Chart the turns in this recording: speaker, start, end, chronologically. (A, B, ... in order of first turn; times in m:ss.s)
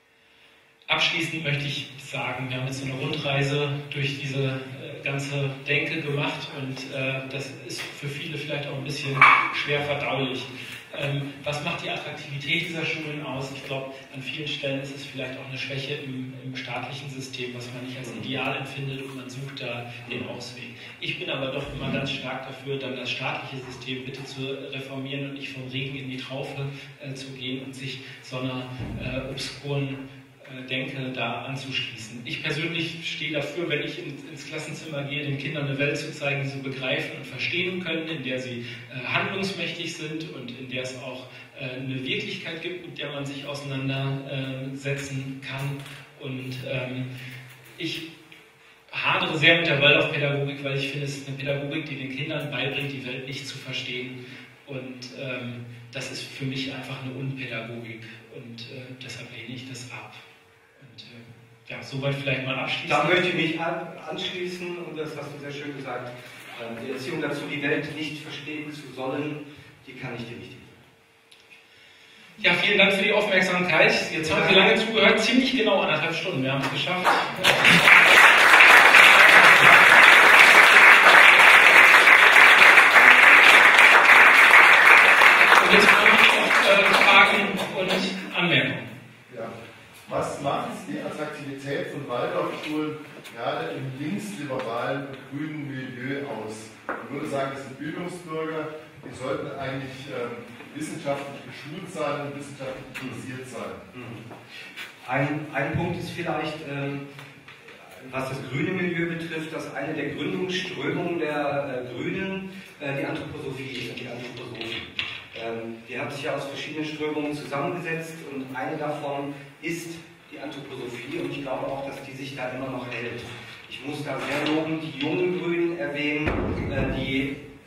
0:00.9-0:47.1 A
0:18.0-0:18.3 B
0:47.8-0:48.1 A
0:48.9-1:00.2 A
1:00.8-1:03.3 A
1:02.8-1:10.8 B
1:12.4-1:17.8 A
1:14.2-1:14.8 B
1:19.2-1:19.7 A
1:25.6-1:28.9 A
1:29.3-1:29.5 C
1:30.0-1:43.8 C
1:43.9-1:44.2 B
1:45.0-1:47.0 B
1:47.8-2:07.4 B